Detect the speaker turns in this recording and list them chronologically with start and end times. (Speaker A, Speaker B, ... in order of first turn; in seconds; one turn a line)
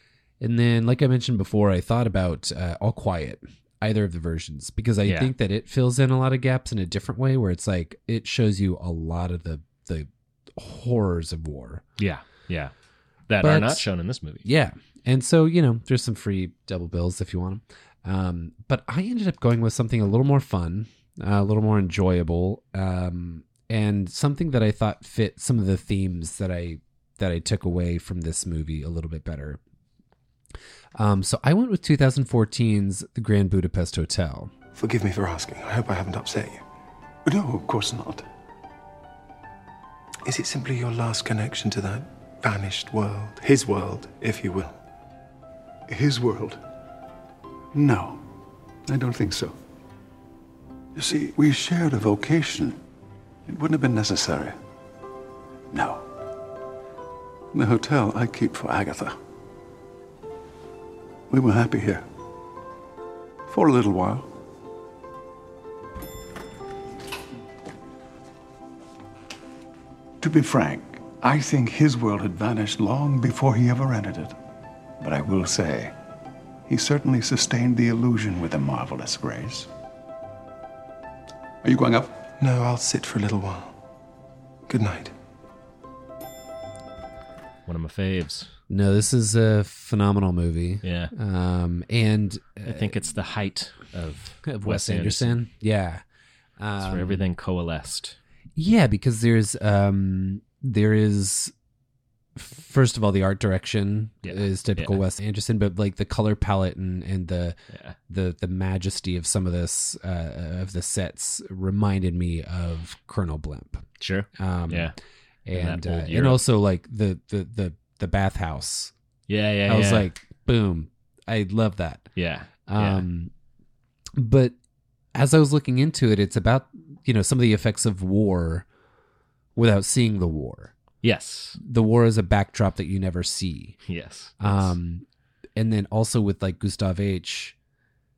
Speaker A: 0.4-11.8
Speaker B: 5.0-5.3
Speaker B: 12.0-12.7
Speaker B: 13.3-14.4
Speaker A: 13.4-13.9
Speaker A: 14.4-29.6
Speaker A: 30.9-34.5
Speaker C: 34.7-36.6
Speaker D: 37.2-38.2
Speaker C: 40.2-44.8
Speaker D: 45.9-46.6
Speaker D: 47.7-48.2
Speaker D: 48.9-49.5
Speaker D: 50.9-52.8
Speaker D: 53.5-54.6
Speaker D: 55.7-56.0
Speaker D: 57.5-59.2
Speaker D: 61.3-62.0
Speaker D: 63.5-64.3
Speaker D: 70.2-74.3
Speaker D: 75.0-75.9
Speaker D: 76.7-79.7
Speaker D: 81.6-82.1
Speaker C: 82.4-83.7
Speaker C: 84.7-85.1
Speaker B: 87.7-88.5
Speaker A: 88.7-93.0
Speaker B: 90.8-91.1
Speaker B: 92.6-95.4
Speaker A: 94.4-96.0
Speaker A: 96.6-97.2
Speaker B: 96.8-98.2
Speaker A: 98.5-101.5
Speaker A: 102.3-107.6
Speaker B: 104.2-105.0
Speaker B: 107.7-108.0
Speaker A: 108.1-114.9
Speaker B: 114.0-114.9
Speaker A: 115.5-118.9
Speaker B: 115.5-116.4
Speaker B: 119.3-120.1
Speaker A: 119.7-122.1
Speaker B: 122.2-123.0
Speaker A: 122.7-123.3
Speaker A: 124.2-124.5
Speaker A: 125.1-128.7
Speaker A: 129.6-130.7
Speaker B: 131.0-131.6
Speaker A: 131.6-133.8
Speaker B: 133.9-134.8
Speaker A: 134.4-137.6